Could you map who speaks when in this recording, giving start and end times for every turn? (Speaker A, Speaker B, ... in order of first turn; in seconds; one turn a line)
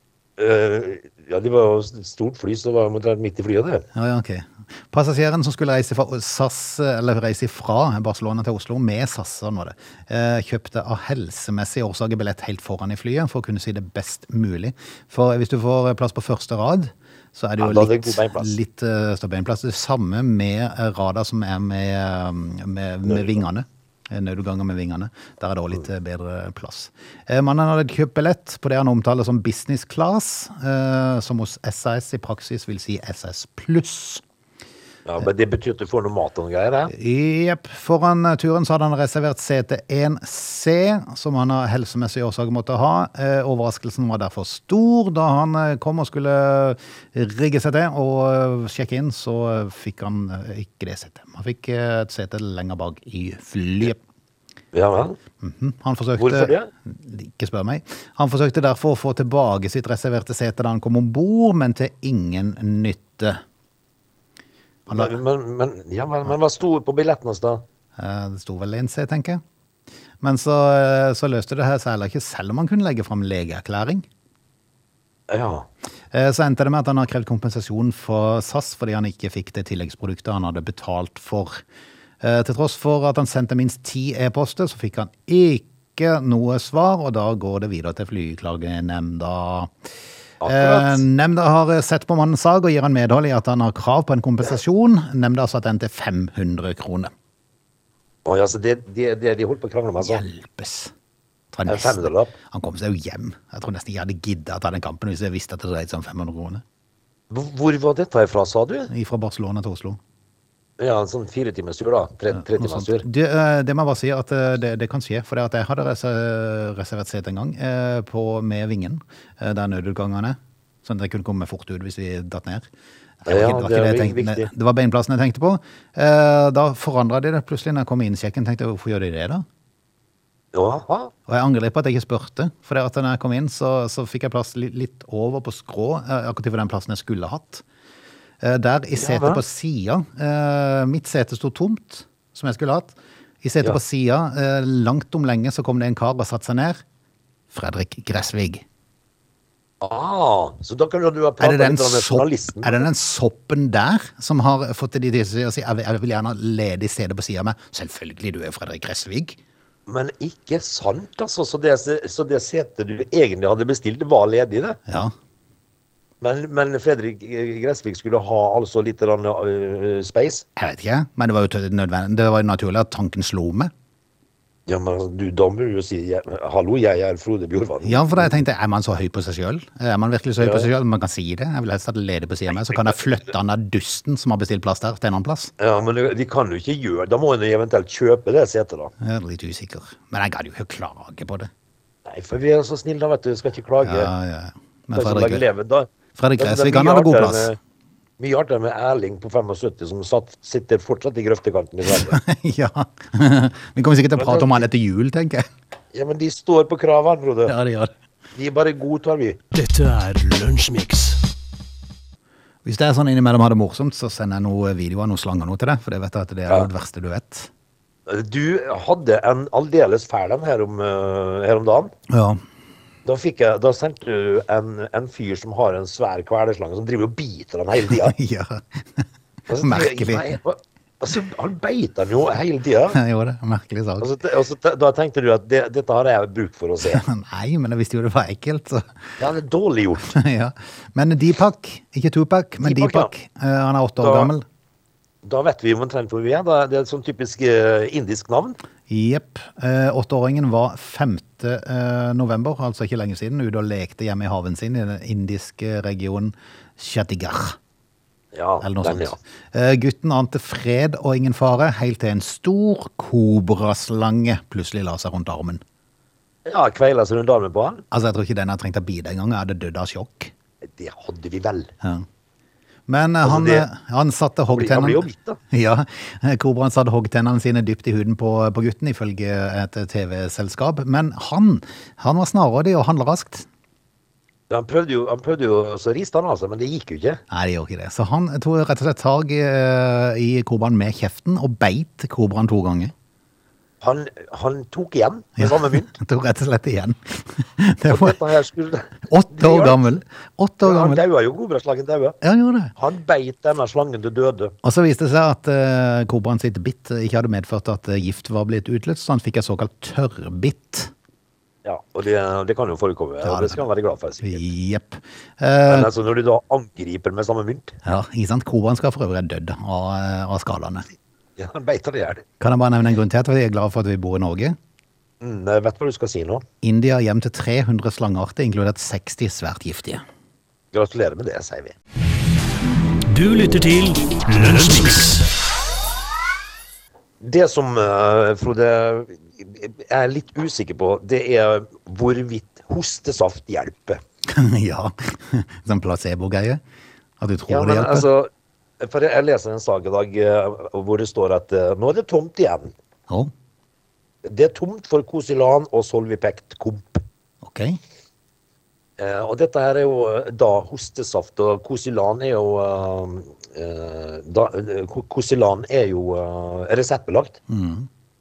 Speaker A: 0.4-3.8
Speaker B: 3.9-34.2
Speaker A: 17.6-18.6
Speaker A: 23.1-23.4
Speaker A: 35.0-36.9
Speaker B: 36.9-54.0
Speaker A: 54.7-55.2
Speaker B: 55.4-63.4
Speaker A: 56.2-56.7
Speaker A: 64.9-67.6
Speaker B: 68.0-69.4
Speaker B: 70.2-74.0
Speaker A: 75.3-75.7
Speaker B: 76.1-81.6
Speaker B: 82.2-89.7
Speaker A: 90.4-91.0
Speaker B: 90.5-97.1
Speaker A: 98.2-100.2
Speaker B: 100.0-100.9
Speaker B: 101.5-106.6
Speaker A: 101.7-102.3
Speaker A: 107.3-108.9
Speaker B: 108.9-110.0
Speaker A: 110.8-113.0
Speaker B: 112.3-122.7
Speaker B: 123.2-129.4
Speaker A: 123.3-124.5
Speaker A: 130.5-131.1
Speaker B: 131.3-137.6
Speaker B: 138.4-146.8
Speaker A: 138.9-139.4
Speaker B: 147.5-148.6
Speaker A: 149.8-152.8
Speaker B: 151.4-159.4
Speaker A: 159.9-164.8
Speaker B: 164.9-165.1
Speaker A: 166.2-170.4
Speaker B: 170.6-173.7
Speaker A: 174.7-178.3
Speaker B: 177.8-185.5
Speaker A: 180.4-180.7
Speaker A: 185.6-188.9
Speaker B: 189.0-191.5
Speaker A: 192.0-194.1
Speaker B: 193.8-195.4
Speaker A: 194.9-197.6
Speaker B: 196.1-197.5
Speaker A: 198.2-202.2
Speaker B: 201.9-205.5
Speaker A: 204.2-204.7
Speaker A: 205.9-207.5
Speaker B: 207.4-207.9
Speaker A: 208.3-209.4
Speaker C: 209.5-211.2
Speaker B: 212.6-217.5
Speaker A: 218.1-221.9
Speaker B: 222.1-222.4
Speaker A: 223.0-228.2
Speaker B: 227.9-229.0
Speaker A: 229.5-233.0
Speaker B: 229.6-230.4
Speaker B: 232.9-234.1
Speaker A: 234.0-237.0
Speaker B: 236.8-238.9
Speaker A: 239.2-240.0
Speaker B: 240.0-244.4
Speaker A: 242.6-243.1
Speaker A: 244.0-244.3
Speaker A: 245.2-248.6
Speaker B: 248.9-257.6
Speaker A: 258.3-259.2
Speaker B: 258.6-265.6
Speaker A: 266.4-267.8
Speaker B: 267.9-270.3
Speaker A: 270.6-271.7
Speaker B: 272.9-283.5
Speaker A: 273.2-273.7
Speaker A: 274.5-275.4
Speaker A: 284.5-287.2
Speaker B: 287.3-292.9
Speaker A: 293.8-295.9
Speaker B: 295.4-298.2
Speaker A: 297.9-299.8
Speaker B: 299.1-301.0
Speaker A: 300.6-302.2
Speaker B: 302.2-302.7
Speaker A: 302.8-304.5
Speaker B: 304.6-310.9
Speaker A: 311.6-314.4
Speaker B: 313.2-313.6
Speaker B: 314.2-315.9
Speaker A: 315.6-317.8
Speaker B: 317.8-320.9
Speaker A: 321.4-322.2
Speaker B: 322.4-324.6
Speaker A: 325.2-326.4
Speaker B: 326.6-330.0
Speaker A: 330.7-331.8
Speaker C: 333.1-335.3
Speaker A: 337.2-344.0
Speaker B: 344.3-346.6
Speaker B: 347.2-348.1
Speaker A: 347.5-352.7
Speaker A: 354.2-357.0
Speaker B: 357.4-357.8
Speaker A: 359.0-367.4
Speaker B: 367.5-367.9